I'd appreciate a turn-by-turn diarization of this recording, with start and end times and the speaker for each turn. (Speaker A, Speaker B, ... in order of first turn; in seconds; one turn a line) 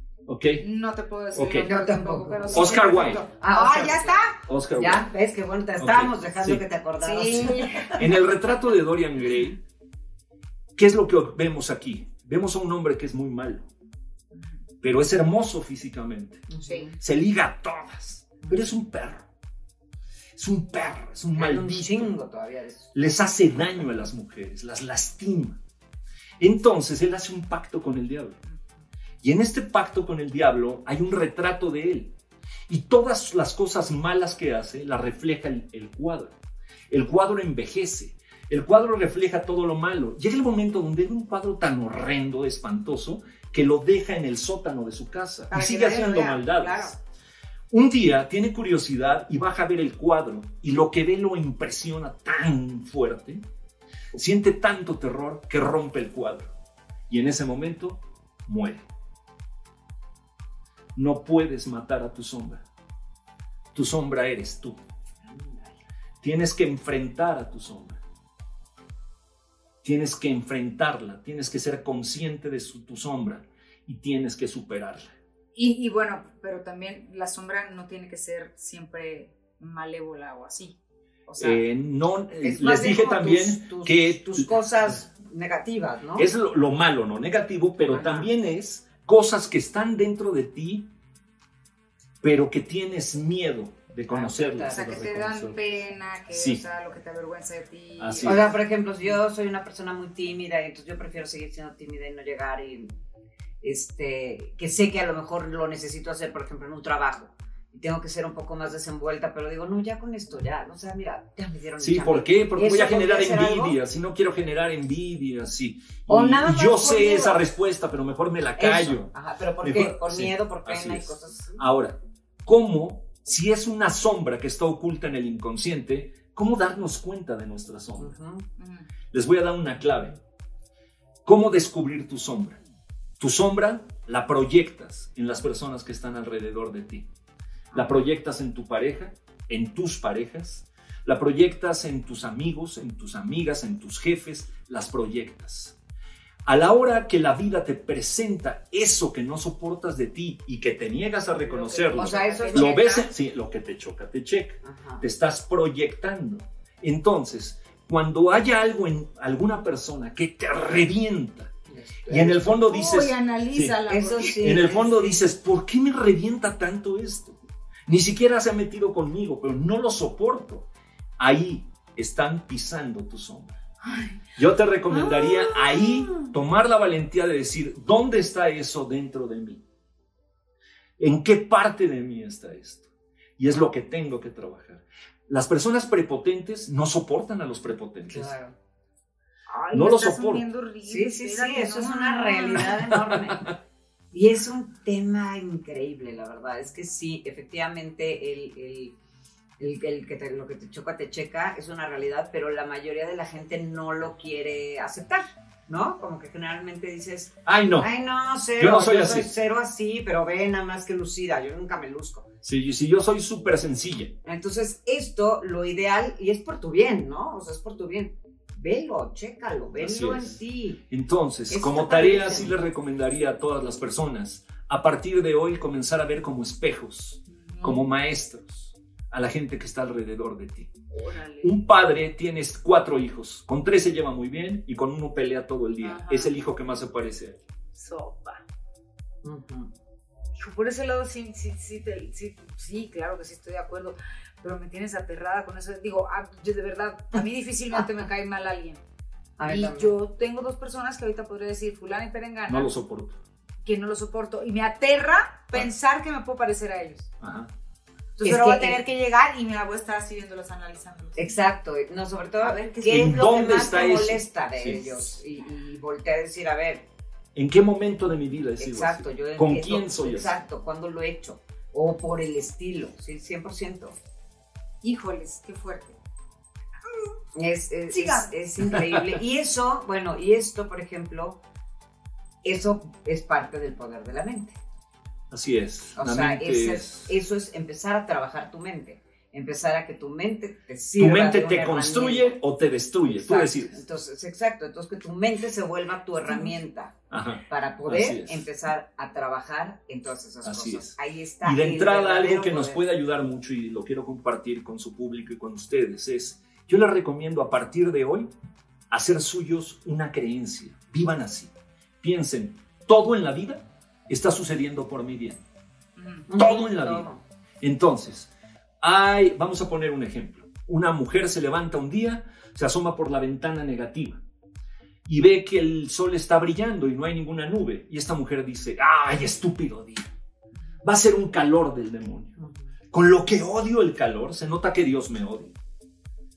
Speaker A: 0.3-0.7
Speaker B: 0.6-4.4
Speaker A: 1.3-1.7
Speaker C: 1.6-8.1
Speaker A: 2.5-3.2
Speaker A: 4.5-5.1
Speaker A: 5.8-6.6
Speaker B: 7.0-8.1
Speaker A: 8.0-9.6
Speaker A: 10.8-13.7
Speaker A: 14.8-16.5
Speaker C: 16.5-17.0
Speaker B: 16.6-16.9
Speaker A: 17.0-19.3
Speaker A: 20.4-22.1
Speaker C: 21.4-22.9
Speaker A: 22.9-25.6
Speaker A: 26.4-28.4
Speaker A: 29.2-32.1
Speaker A: 32.7-36.4
Speaker A: 36.9-47.0
Speaker B: 45.5-47.0
Speaker A: 47.7-53.4
Speaker A: 54.1-56.5
Speaker A: 57.1-58.9
Speaker A: 61.0-62.6
Speaker A: 63.7-64.8
Speaker C: 65.2-65.8
Speaker A: 66.2-68.0
Speaker A: 69.8-75.2
Speaker B: 75.5-81.6
Speaker A: 81.4-84.5
Speaker C: 82.4-86.3
Speaker A: 86.2-90.9
Speaker C: 87.9-88.3
Speaker A: 92.2-95.6
Speaker C: 94.1-95.0
Speaker B: 94.7-98.5
Speaker A: 96.3-96.6
Speaker A: 98.0-98.5
Speaker C: 98.2-102.9
Speaker C: 103.6-113.8
Speaker A: 111.8-128.2
Speaker C: 116.1-117.4
Speaker C: 118.6-121.6
Speaker C: 128.0-128.4
Speaker B: 128.6-128.9
Speaker A: 129.1-130.2
Speaker A: 131.2-132.6
Speaker A: 133.2-137.1
Speaker B: 137.7-138.0
Speaker A: 137.7-145.8
Speaker A: 146.5-161.5
Speaker C: 151.6-152.8
Speaker B: 151.9-153.1
Speaker C: 154.6-155.0
Speaker C: 161.7-162.5
Speaker A: 162.1-163.8
Speaker B: 162.4-164.8
Speaker C: 163.9-165.2
Speaker A: 164.4-170.7
Speaker A: 171.2-173.6
Speaker B: 173.8-174.2
Speaker A: 174.4-179.6
Speaker B: 174.9-176.3
Speaker A: 181.0-182.8
Speaker A: 183.4-188.3
Speaker C: 188.1-188.5
Speaker B: 189.5-192.9
Speaker A: 189.7-190.4
Speaker C: 190.8-193.5
Speaker A: 193.1-193.5
Speaker C: 194.1-199.0
Speaker C: 199.6-212.3
Speaker A: 207.5-207.9
Speaker A: 208.6-209.3
Speaker A: 212.4-214.1
Speaker C: 214.2-220.8
Speaker A: 219.8-220.4
Speaker A: 220.9-230.7
Speaker C: 221.5-222.5
Speaker B: 227.3-227.8
Speaker B: 230.9-231.6
Speaker A: 231.4-237.4
Speaker B: 235.8-236.3
Speaker B: 237.7-238.4
Speaker C: 239.2-239.7
Speaker B: 240.4-248.8
Speaker C: 249.4-249.9
Speaker B: 249.5-252.7
Speaker A: 252.5-253.2
Speaker B: 253.6-257.1
Speaker A: 257.2-257.5
Speaker B: 258.2-261.4
Speaker C: 258.2-258.8
Speaker C: 261.2-266.9
Speaker B: 262.4-263.1
Speaker A: 262.9-265.0
Speaker A: 267.4-270.4
Speaker C: 268.6-273.9
Speaker B: 274.8-276.0
Speaker C: 277.4-281.4
Speaker B: 277.9-278.3
Speaker C: 282.4-284.6
Speaker A: 285.3-287.1
Speaker C: 286.0-292.4
Speaker A: 291.0-293.8
Speaker C: 293.1-296.9
Speaker A: 297.1-298.5
Speaker C: 297.5-302.8
Speaker A: 300.4-308.3
Speaker A: 308.9-315.4
Speaker B: 316.0-316.3
Speaker C: 316.3-317.2
Speaker A: 316.4-317.1
Speaker A: 317.6-324.2
Speaker A: 325.1-330.1
Speaker A: 330.8-332.3
Speaker C: 332.4-332.6
Speaker A: 332.9-335.5